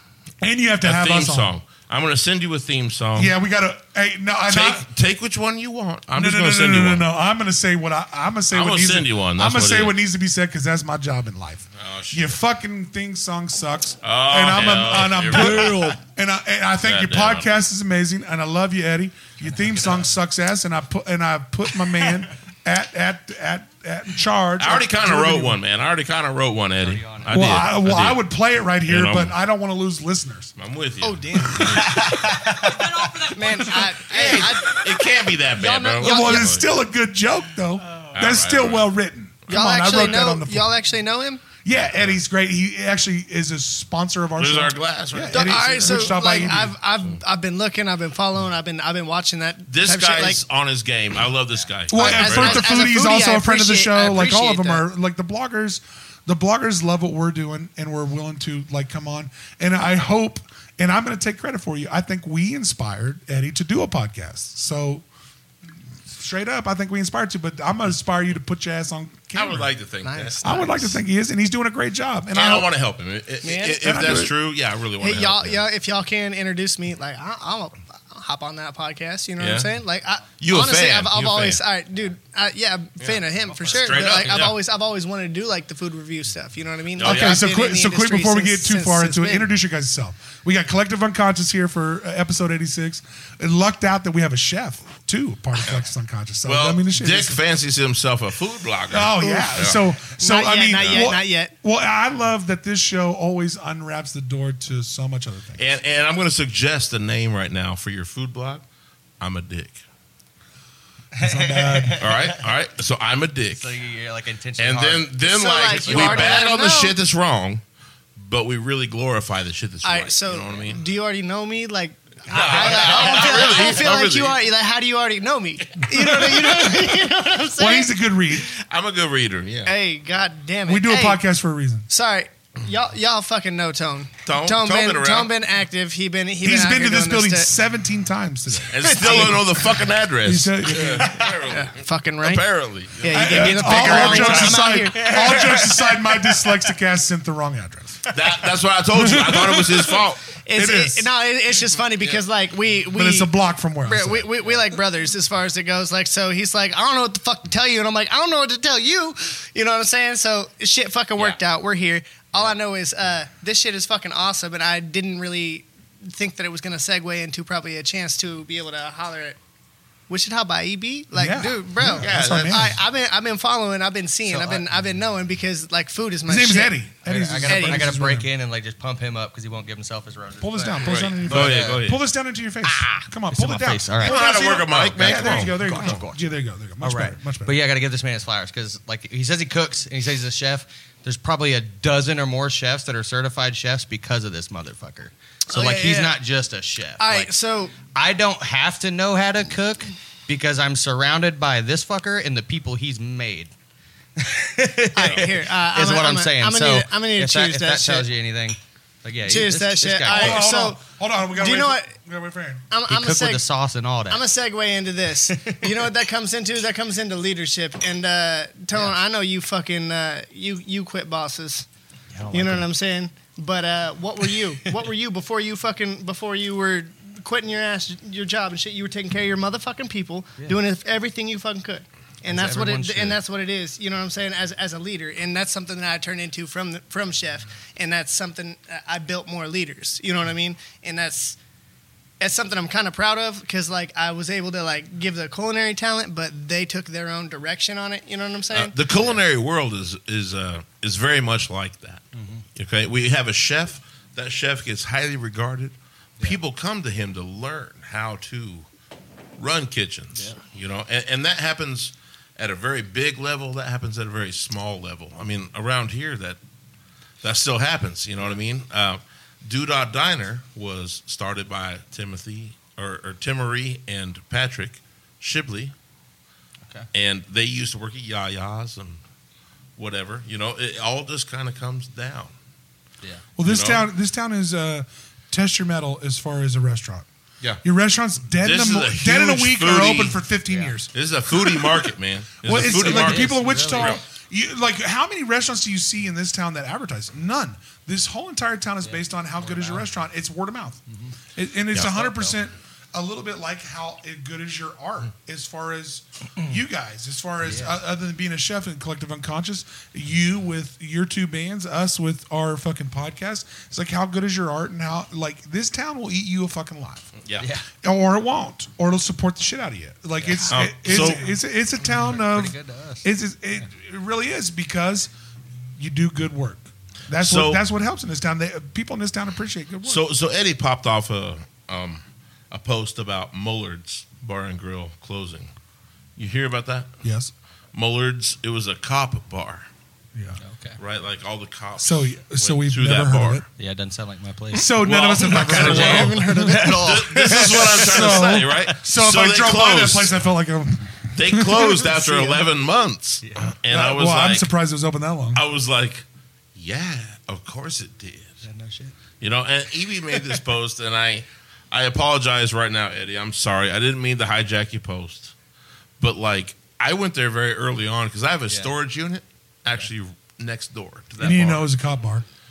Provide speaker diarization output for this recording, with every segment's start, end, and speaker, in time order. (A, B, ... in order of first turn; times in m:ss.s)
0:00.4-0:01.5 A
0:00.8-0:03.3 B
0:03.2-0:04.9 A
0:04.5-0:07.1 B
0:06.1-0:25.6 A
0:08.5-0:10.0 B
0:11.8-0:12.4 B
0:14.0-0:15.8 B
0:15.3-0:16.0 C
0:16.8-0:17.5 B
0:19.4-0:20.1 C
0:24.6-0:28.2 B
0:26.8-0:27.6 C
0:27.3-0:30.5 A
0:28.8-0:29.3 B
0:30.6-0:32.1 B
0:31.0-0:36.5 D
0:31.4-0:32.2 A
0:31.9-0:33.9 C
0:34.0-0:36.7 B
0:36.0-0:40.8 A
0:38.1-0:38.9 B
0:39.5-0:41.4 D
0:41.6-0:46.7 A
0:41.7-0:42.2 B
0:44.4-0:47.2 B
0:45.3-0:50.4 D
0:49.7-0:52.8 B
0:51.9-1:05.0 A
0:51.9-0:54.9 D
1:06.1-1:09.7 A
1:09.3-1:10.7 B
1:10.0-1:11.0 D
1:10.4-1:12.7 A
1:12.3-1:15.6 B
1:13.4-1:14.0 D
1:13.8-1:14.3 A
1:15.0-1:29.5 D
1:19.4-1:19.7 B
1:20.4-1:21.6 B
1:23.0-1:24.6 B
1:23.5-1:24.4 C
1:26.9-1:27.5 B
1:27.0-1:37.4 A
1:36.4-1:39.9 B
1:38.9-1:45.7 A
1:39.2-1:39.6 D
1:40.2-1:41.5 D
1:40.8-1:41.1 B
1:45.6-1:48.6 B
1:49.2-1:49.8 B
1:51.2-1:52.4 C
1:51.2-1:52.0 A
1:52.0-1:53.7 B
1:53.5-1:56.4 C
1:54.6-1:57.6 B
1:55.2-1:57.0 D
1:58.2-2:00.8 B
1:59.8-2:08.4 D
2:02.3-2:04.4 B
2:02.3-2:03.8 C
2:07.6-2:08.5 A
2:08.7-2:09.7 B
2:09.6-2:11.2 D
2:10.6-2:11.9 A
2:11.9-2:17.5 D
2:14.2-2:15.3 B
2:16.4-2:19.4 A
2:18.7-2:24.6 B
2:18.8-2:19.7 D
2:20.2-2:21.2 A
2:21.2-2:22.4 D
2:23.0-2:25.7 D
2:23.1-2:28.1 A
2:23.7-2:26.5 C
2:28.1-2:30.3 B
2:28.9-2:30.0 A
2:30.3-2:33.3 D
2:30.5-2:31.1 A
2:32.9-2:34.3 A
2:33.8-2:49.4 D
2:50.1-2:56.8 D
2:51.1-2:52.8 A
2:51.8-2:52.6 B
2:54.2-2:54.8 C
2:56.2-2:58.3 A
2:57.0-3:01.9 C
2:57.5-2:57.8 D
3:00.4-3:07.6 A
3:00.8-3:02.0 B
3:02.8-3:06.3 C
3:04.0-3:06.0 B
3:06.8-3:17.3 C
3:15.5-3:16.2 D
3:17.0-3:17.8 D
3:17.8-3:23.5 C
3:24.2-3:30.4 C
3:24.9-3:28.1 D
3:29.2-3:31.9 D
3:30.0-3:32.6 A
3:32.7-3:33.5 D
3:32.9-3:34.2 C
3:34.1-3:41.7 D
3:35.3-3:35.6 C
3:42.1-3:42.7 C
3:42.3-4:01.4 D
3:52.3-3:53.2 C
4:02.2-4:08.7 D
4:08.5-4:12.0 B
4:12.1-4:12.4 C
4:12.5-4:18.7 B
4:19.4-4:26.4 B
4:20.1-4:20.4 C
4:27.2-4:35.7 B
4:36.9-4:39.0 B
4:39.8-4:42.3 B
4:43.4-4:47.0 A
4:43.4-4:43.8 B
4:47.6-4:51.9 A
4:48.4-4:50.2 B
4:50.5-4:50.8 C
4:50.9-4:54.0 B
4:52.4-5:00.8 A
4:52.7-4:54.0 C
4:58.8-4:59.9 C
5:00.9-5:01.1 C
5:01.3-5:17.1 A
5:01.7-5:02.4 B
5:07.4-5:07.8 C
5:17.4-5:17.6 C
5:17.8-5:25.1 A
5:20.2-5:21.2 C
5:20.5-5:21.3 B
5:21.9-5:23.1 C
5:25.8-5:30.0 A
5:27.2-5:27.6 B
5:29.8-5:35.5 B
5:36.2-5:36.9 B
5:37.0-5:37.3 A
5:37.7-5:39.7 B
5:40.1-5:40.4 A
5:40.4-5:40.8 C
5:40.8-5:43.4 B
5:41.8-5:43.4 A
5:43.6-5:48.7 C
5:44.5-5:46.9 A
5:44.8-5:50.2 B
5:45.4-5:47.8 D
5:47.6-5:51.9 A
5:51.1-5:54.5 B
5:51.6-5:52.4 D
5:53.2-5:53.5 C
5:53.6-5:55.4 A
5:55.3-5:58.4 B
5:58.4-5:58.9 C
5:59.2-6:05.3 B
6:06.0-6:11.6 B
6:11.2-6:12.2 A